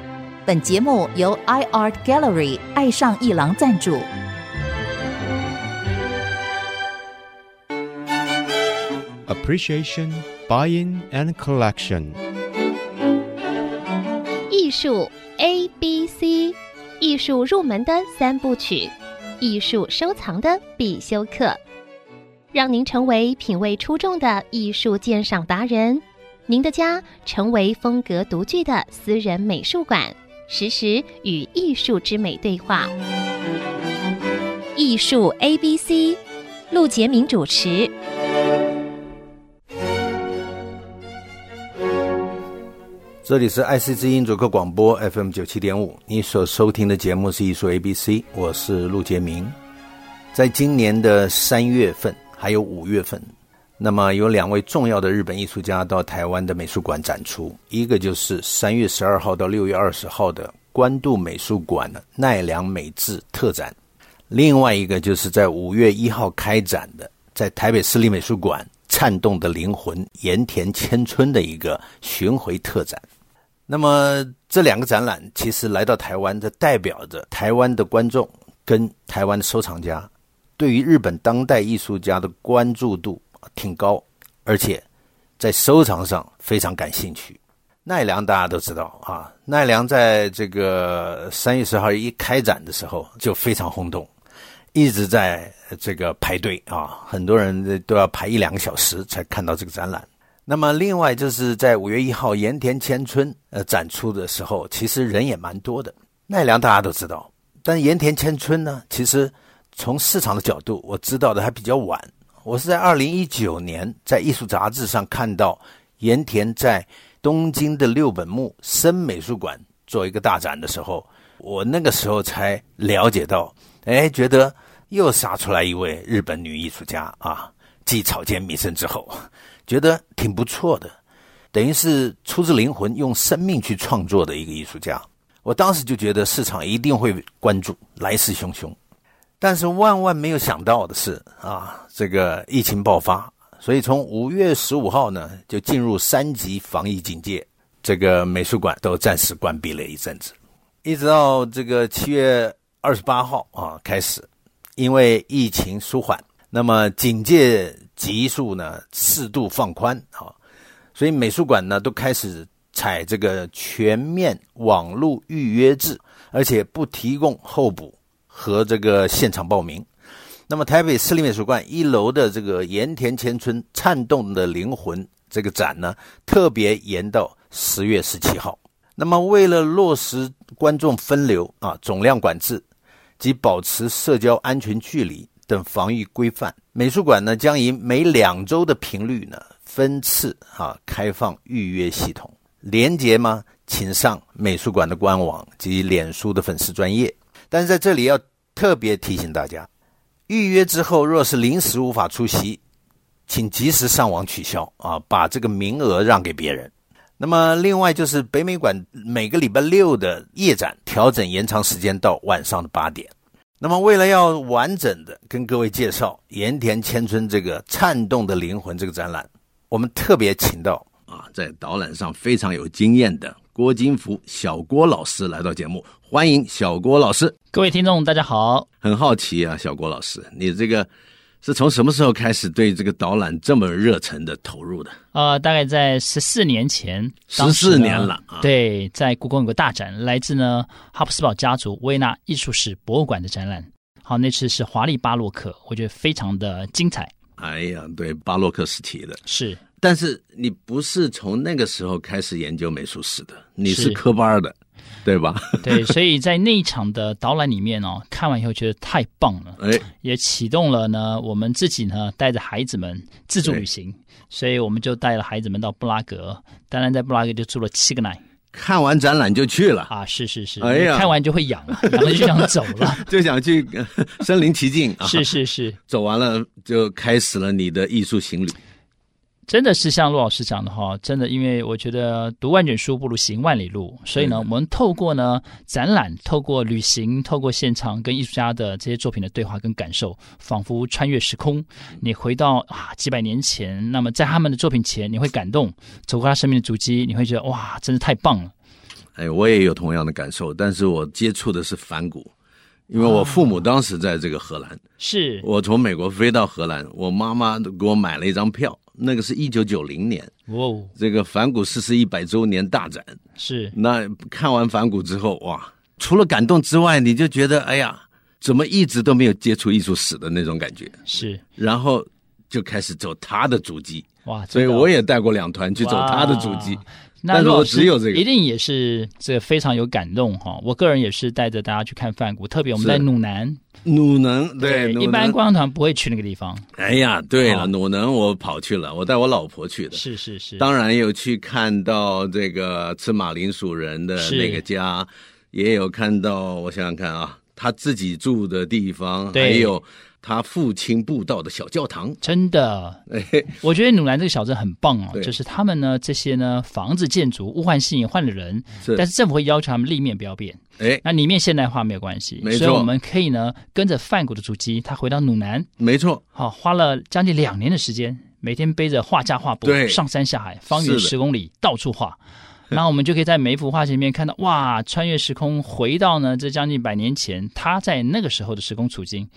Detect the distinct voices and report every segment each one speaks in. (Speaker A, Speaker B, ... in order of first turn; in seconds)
Speaker A: 0.5-4.1
Speaker B: 9.3-12.2
Speaker C: 14.5-21.6, 22.5-32.9, 34.8-36.2, 36.7-37.9
Speaker D: 43.2-49.5, 50.3-63.8, 64.3-73.0, 73.7-84.8, 85.4-94.1, 94.7-131.0, 131.5-138.8, 139.4-160.3, 160.9-169.9, 170.5-182.7, 183.2-199.7, 200.3-202.6, 203.3-227.3, 228.8-230.9, 231.4-235.0, 237.3-238.5, 247.4-249.2, 249.8-255.9, 259.6-259.9, 268.5-269.9, 270.6-271.1, 271.7-275.3, 275.9-278.6, 284.2-284.4, 299.2-302.3, 302.9-304.8, 305.4-310.3, 311.0-313.2, 313.7-321.0, 321.6-328.2, 332.8-333.1, 333.8-335.4, 336.8-340.0, 340.6-352.2, 353.1-353.5, 360.8-361.0, 362.4-362.9, 365.8-366.2, 369.6-370.0, 370.7-371.1
Speaker E: 227.5-228.7, 235.1-247.1, 249.3-249.6, 253.7-254.0, 255.6-268.2, 269.9-273.1, 275.0-275.8, 279.5-298.5, 303.0-303.6, 305.0-305.5, 310.5-310.9, 313.4-313.8, 321.1-321.4, 324.3-324.9, 325.8-333.6, 334.6-336.7, 337.4-337.7, 339.9-340.7, 344.2-344.6, 349.3-349.7, 352.2-353.0, 353.5-365.7, 366.4-372.2, 372.7-379.3